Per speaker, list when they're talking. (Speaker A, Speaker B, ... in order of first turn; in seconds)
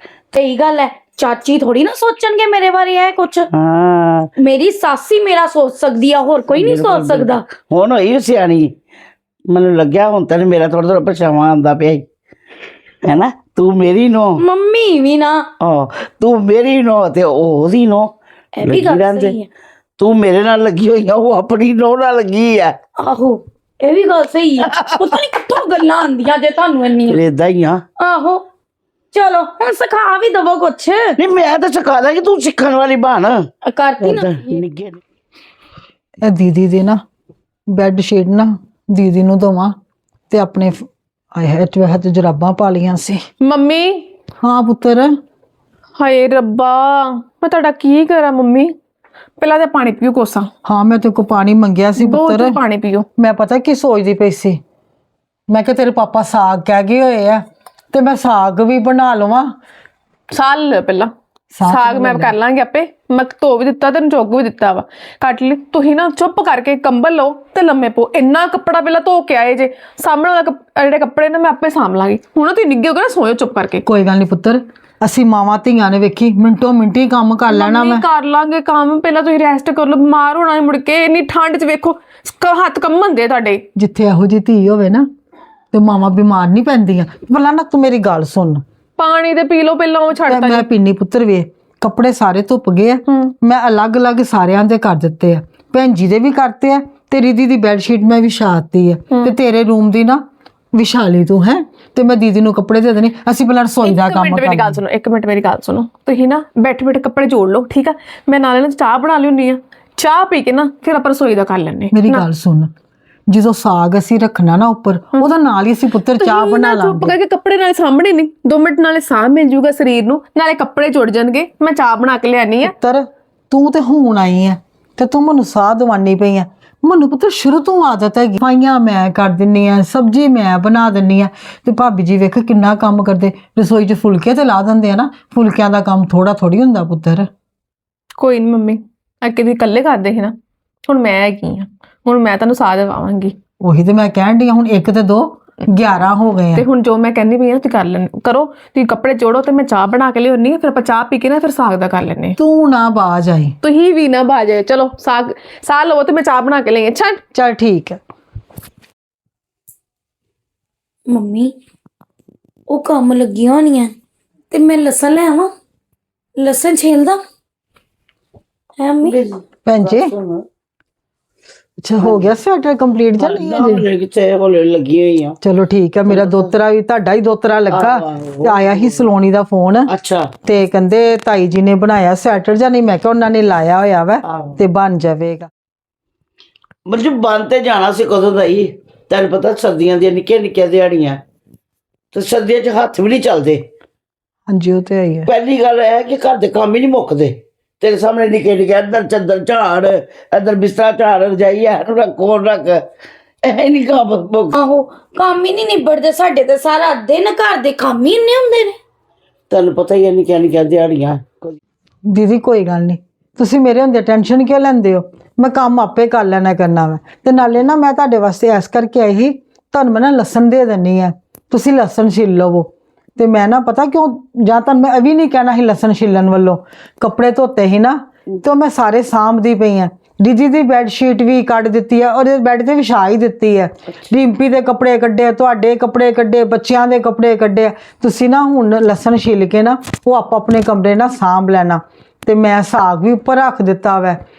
Speaker A: 0.3-3.5, 4.4-7.4, 14.4-15.5, 18.6-19.5, 23.0-27.2, 28.0-28.4, 29.1-31.2, 33.6-34.6, 161.1-161.5, 162.7-163.9, 164.5-165.5, 166.4-167.2, 168.8-169.2, 204.5-208.8
Speaker B: 3.5-4.3, 6.5-8.8, 9.5-12.1, 13.0-14.4, 15.6-18.1, 18.6-19.4, 20.0-22.8, 24.7-25.2, 27.1-27.8, 31.2-33.5, 34.0-35.0, 169.0-170.4, 172.0-172.3, 173.2-175.4, 176.1-176.5, 177.7-179.0, 179.9-180.3, 184.2-184.6, 186.9-191.2, 192.1-193.6, 195.3-202.8, 203.4-204.5, 209.5-211.6
Speaker C: 36.2-37.0, 37.7-39.8, 40.3-43.2, 44.4-45.2, 50.6-52.6, 53.2-54.6, 55.5-59.6, 61.6-62.3, 73.8-78.0, 83.8-85.1, 85.7-88.6, 90.3-104.8, 111.9-112.7, 113.3-117.2, 122.6-137.3, 143.6-146.7, 152.4-153.6, 157.3-158.0, 169.7-170.1, 171.8-173.9, 175.4-179.9, 180.4-185.5, 194.5-195.3, 212.1-244.2
Speaker D: 43.4-44.1, 46.0-48.8, 49.4-50.5, 52.0-53.1, 60.3-61.1, 61.7-73.8, 77.5-83.7, 89.0-90.7, 103.8-112.3, 116.2-122.7, 138.2-140.3, 140.9-143.3, 146.6-152.4, 153.6-157.2